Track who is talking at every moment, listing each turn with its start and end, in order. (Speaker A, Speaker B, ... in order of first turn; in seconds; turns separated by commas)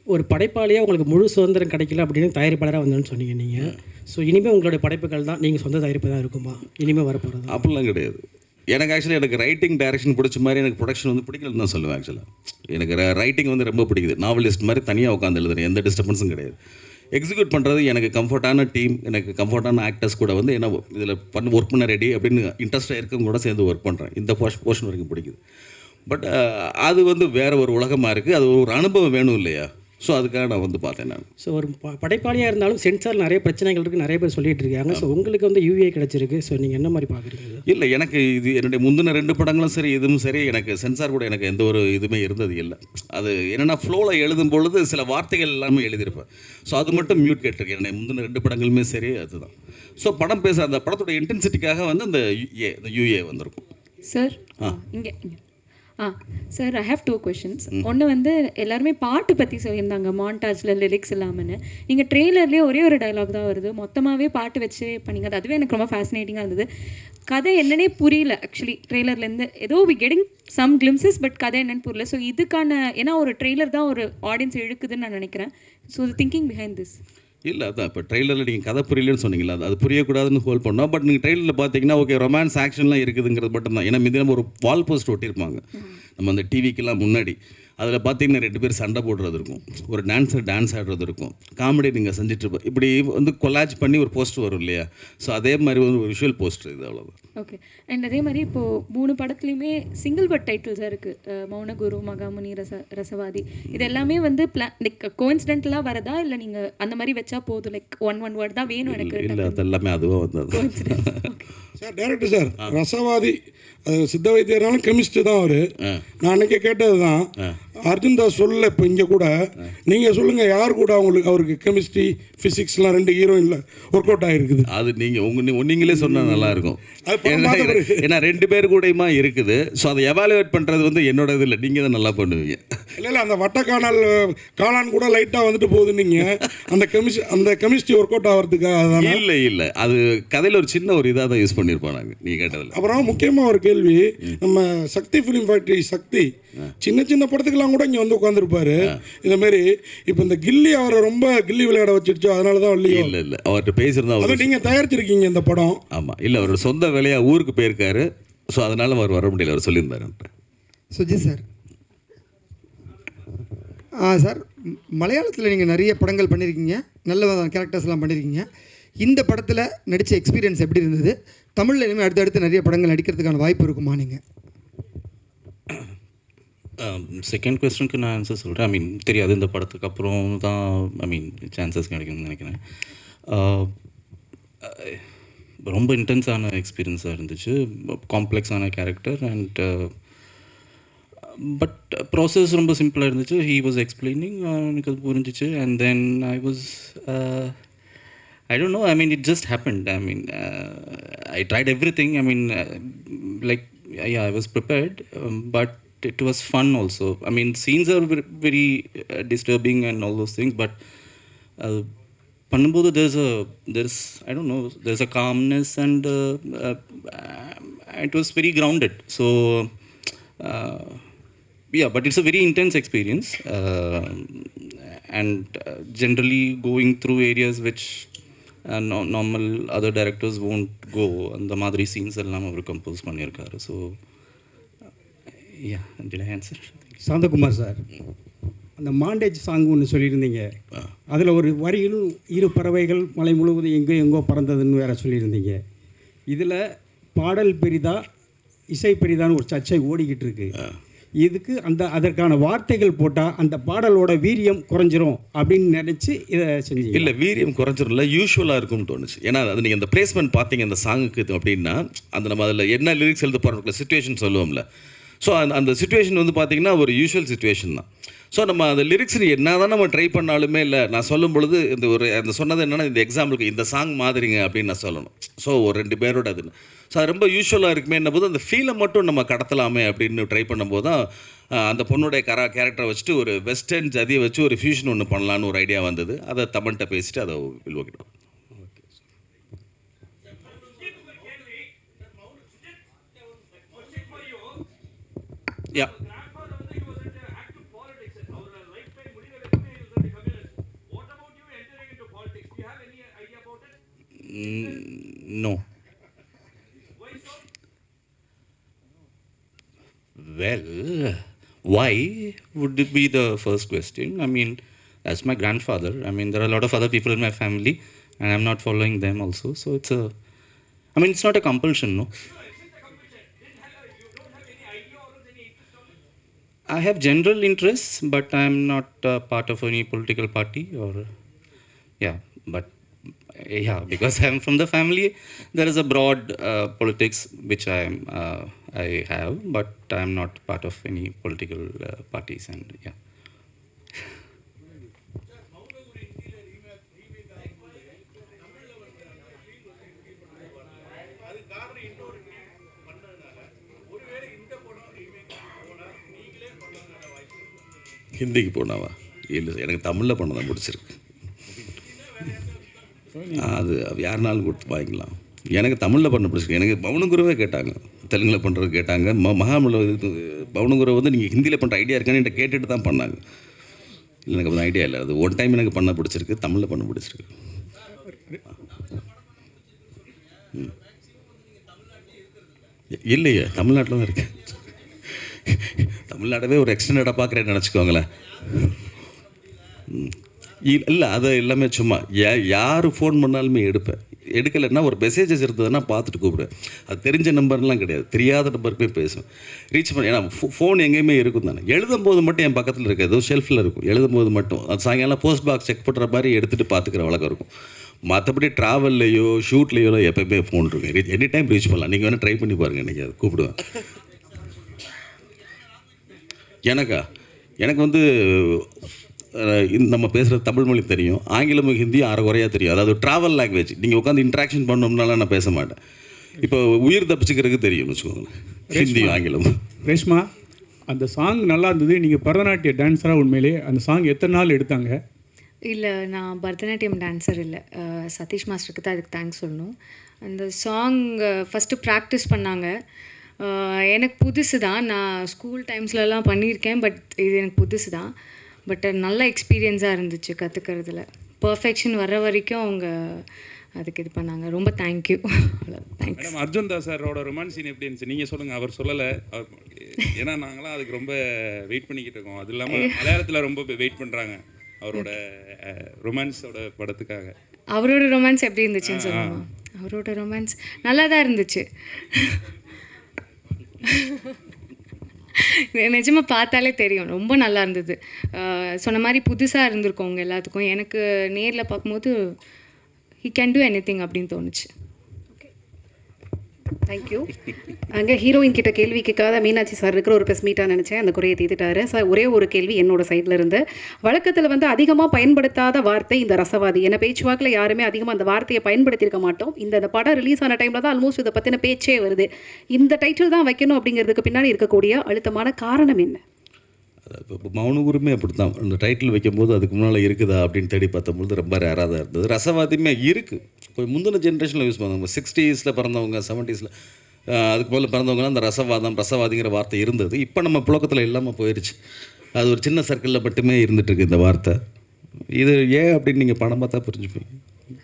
Speaker A: 0.1-3.5, Speaker A: 4.1-7.5, Speaker B: 7.5-8.2, Speaker B: 8.7-16.6, Speaker B: 17.2-25.4, Speaker B: 26.1-31.3, Speaker A: 31.5-37.5, Speaker B: 37.7-53.6, Speaker C: 54.0-55.4, Speaker C: 56.0-66.7, Speaker C: 67.3-77.0, Speaker B: 77.5-85.6, Speaker B: 86.2-97.2, Speaker C: 97.4-109.6, Speaker B: 103.7-104.0, Speaker B: 108.8-111.2, Speaker C: 110.5-111.4, Speaker D: 111.8-115.6, Speaker D: 116.2-117.2, Speaker D: 117.9-119.3, Speaker D: 119.9-124.7, Speaker B: 124.7-132.6, Speaker D: 126.1-126.4, Speaker D: 127.1-128.0, Speaker D: 133.0-139.2, Speaker B: 138.9-142.8, Speaker D: 142.7-146.3, Speaker D: 146.8-153.2, Speaker B: 152.9-154.5, Speaker D: 154.2-155.8, Speaker B: 155.9-160.3, Speaker E: 160.9-161.4, Speaker E: 164.1-168.5, Speaker E: 169.0-174.2, Speaker F: 176.8-182.6, Speaker F: 183.3-183.7, Speaker F: 184.6-185.0, Speaker F: 185.6-189.9, Speaker F: 191.4-197.6, Speaker F: 198.5-210.8, Speaker F: 211.6-211.9, Speaker F: 212.5-219.7, Speaker F: 220.4-221.0, Speaker F: 221.7-228.1, Speaker F: 228.7-234.0, Speaker F: 235.6-236.8, Speaker G: 237.0-237.8, Speaker G: 238.8-240.5, Speaker G: 241.1-245.6, Speaker G: 246.3-248.1, Speaker G: 248.7-250.5, Speaker G: 251.2-257.1, Speaker B: 256.9-264.6, Speaker B: 265.2-281.0, Speaker B: 281.6-288.1, Speaker F: 304.3-305.6, Speaker F: 310.2-320.1, Speaker F: 320.9-322.1, Speaker F: 326.7-331.1, Speaker F: 332.0-332.7, Speaker F: 333.4-342.9, Speaker B: 358.2-361.0, Speaker B: 363.3-373.2, Speaker B: 374.3-377.3, Speaker B: 383.1-384.4, Speaker B: 385.2-388.1, Speaker B: 390.6-407.5, Speaker B: 408.1-413.6, Speaker B: 416.7-417.0, Speaker B: 417.6-418.7, Speaker B: 419.4-425.8, Speaker B: 426.4-429.5, Speaker H: 428.7-429.2, Speaker H: 429.9-430.3, Speaker H: 430.9-435.0, Speaker I: 435.7-442.7, Speaker I: 443.4-448.1, Speaker I: 448.7-456.4, Speaker J: 456.3-459.6, Speaker J: 460.2-467.3, Speaker I: 462.7-463.0, Speaker I: 467.7-472.4, Speaker J: 468.9-469.3, Speaker I: 473.9-474.3, Speaker I: 475.4-482.4, Speaker I: 483.2-484.7, Speaker K: 486.9-487.2, Speaker K: 488.0-493.6, Speaker K: 494.1-502.2, Speaker K: 502.8-506.2, Speaker B: 507.1-516.7, Speaker B: 517.3-521.8, Speaker B: 522.4-524.6, Speaker B: 525.4-527.3